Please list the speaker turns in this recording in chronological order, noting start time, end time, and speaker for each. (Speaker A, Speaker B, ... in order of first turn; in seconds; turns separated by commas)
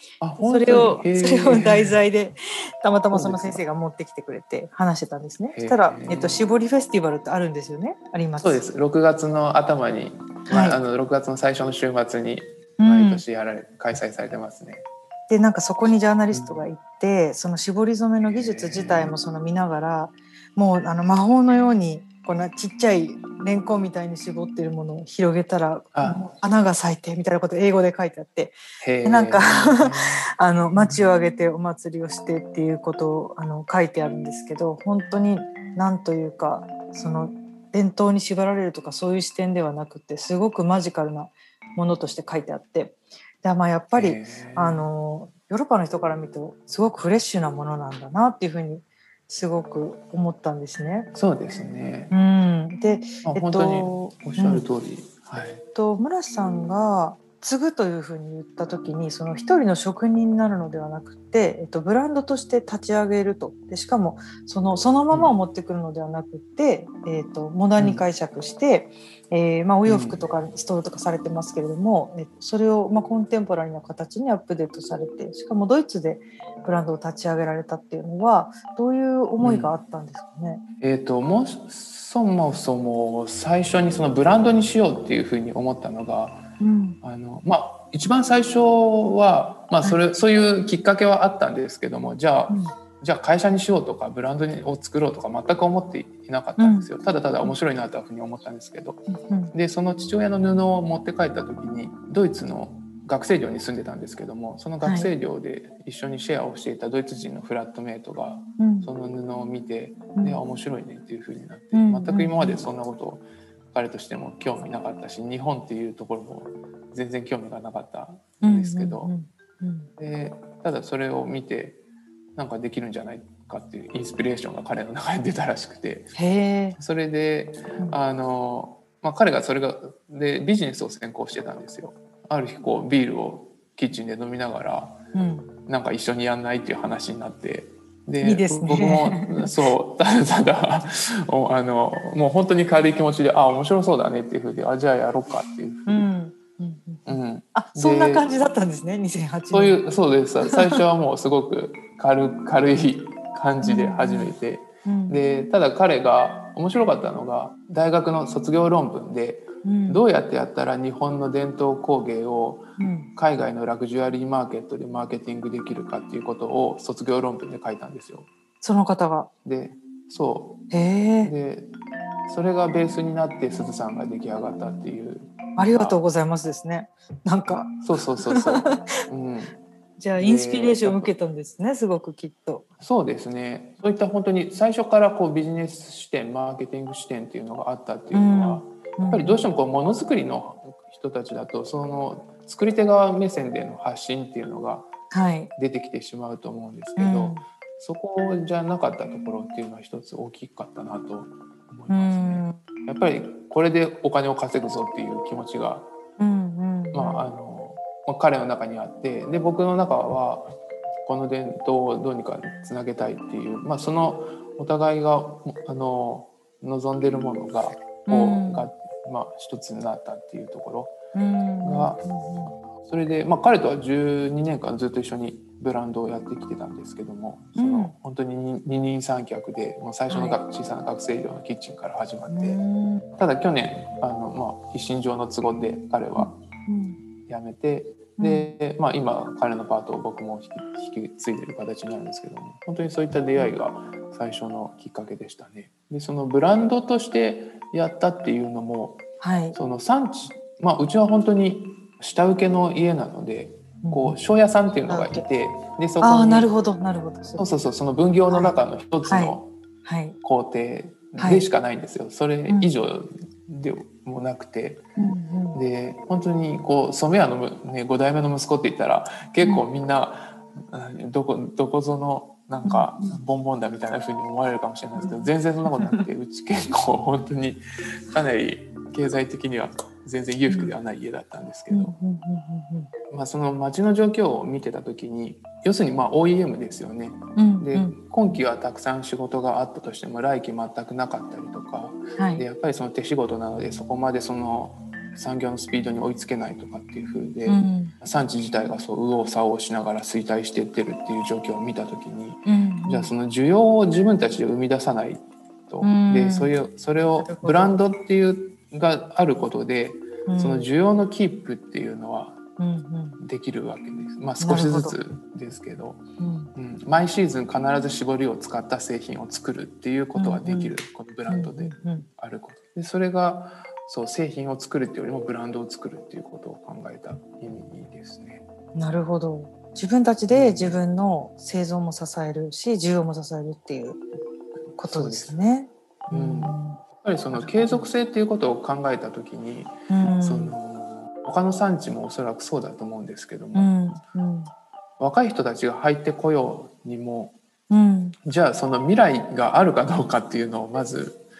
Speaker A: 0.2-2.0, Speaker B: 0.4-8.6, Speaker A: 3.1-3.6, Speaker A: 5.5-6.4, Speaker A: 8.4-14.8, Speaker B: 10.5-10.8, Speaker B: 12.8-13.2, Speaker B: 15.3-51.1, Speaker A: 16.3-16.6, Speaker A: 18.2-19.1, Speaker A: 25.9-26.2, Speaker A: 28.8-31.1, Speaker A: 43.9-44.9, Speaker A: 51.1-52.1, Speaker B: 52.1-54.6, Speaker A: 53.2-55.6, Speaker B: 55.7-80.6, Speaker A: 67.8-68.0, Speaker A: 69.8-70.2, Speaker A: 79.4-79.7, Speaker A: 80.8-86.5, Speaker B: 86.6-87.0, Speaker A: 87.0-119.2, Speaker B: 92.5-92.7, Speaker B: 96.6-96.9, Speaker B: 99.1-99.5, Speaker B: 104.8-105.1, Speaker B: 108.6-108.9, Speaker B: 110.2-110.4, Speaker B: 111.7-112.6, Speaker B: 118.4-119.9, Speaker A: 120.0-121.8, Speaker A: 122.3-126.2, Speaker B: 126.2-126.8, Speaker A: 126.8-135.0, Speaker B: 135.1-135.5, Speaker A: 135.7-146.0, Speaker B: 138.2-139.5, Speaker B: 145.8-149.8, Speaker A: 147.1-148.2, Speaker A: 149.5-168.3, Speaker B: 150.5-150.8, Speaker B: 153.6-154.3, Speaker B: 154.8-155.2, Speaker B: 159.6-160.0, Speaker B: 162.8-163.1, Speaker B: 168.6-169.3, Speaker A: 169.4-170.6, Speaker B: 170.7-171.3, Speaker A: 171.2-171.7, Speaker A: 172.2-176.0, Speaker B: 175.6-177.7, Speaker A: 177.8-179.5, Speaker B: 178.2-178.8, Speaker B: 180.0-182.7, Speaker A: 180.2-181.1, Speaker A: 182.8-194.9, Speaker B: 188.1-189.5, Speaker B: 195.1-195.5, Speaker A: 195.6-205.9, Speaker B: 197.0-197.4, Speaker B: 201.9-202.6, Speaker B: 206.2-207.3, Speaker A: 206.9-221.0, Speaker B: 218.1-218.7, Speaker B: 221.1-222.5, Speaker A: 221.6-222.0, Speaker A: 222.8-232.6, Speaker B: 227.6-227.9, Speaker B: 230.1-230.4, Speaker B: 232.3-233.1, Speaker A: 233.2-236.3, Speaker B: 236.2-237.0, Speaker A: 237.3-256.5, Speaker B: 238.2-238.6, Speaker B: 249.2-249.6, Speaker B: 253.8-254.2, Speaker B: 254.9-255.2, Speaker B: 256.0-257.5, Speaker A: 257.4-259.5, Speaker B: 258.3-260.1, Speaker A: 260.2-264.9, Speaker B: 261.2-261.5, Speaker B: 265.0-265.6, Speaker A: 265.5-281.9, Speaker B: 272.6-273.2, Speaker B: 275.0-276.0, Speaker B: 280.5-280.7, Speaker B: 281.7-282.9, Speaker A: 283.1-312.4, Speaker B: 287.4-288.0, Speaker B: 292.2-292.4, Speaker B: 297.4-297.9, Speaker B: 302.4-303.1, Speaker B: 305.8-306.5, Speaker B: 307.2-307.8, Speaker B: 310.3-310.6, Speaker B: 312.6-313.2, Speaker A: 313.2-316.0, Speaker B: 314.4-314.9, Speaker B: 316.2-316.5, Speaker A: 316.5-328.4, Speaker B: 320.1-320.8, Speaker B: 321.3-322.1, Speaker B: 328.7-334.0, Speaker A: 330.3-330.8, Speaker A: 334.7-335.4, Speaker B: 334.8-336.8, Speaker A: 336.1-343.7, Speaker B: 337.3-337.9, Speaker B: 339.9-340.5, Speaker B: 343.5-344.5, Speaker A: 345.0-347.3, Speaker B: 347.7-348.1, Speaker A: 348.2-351.2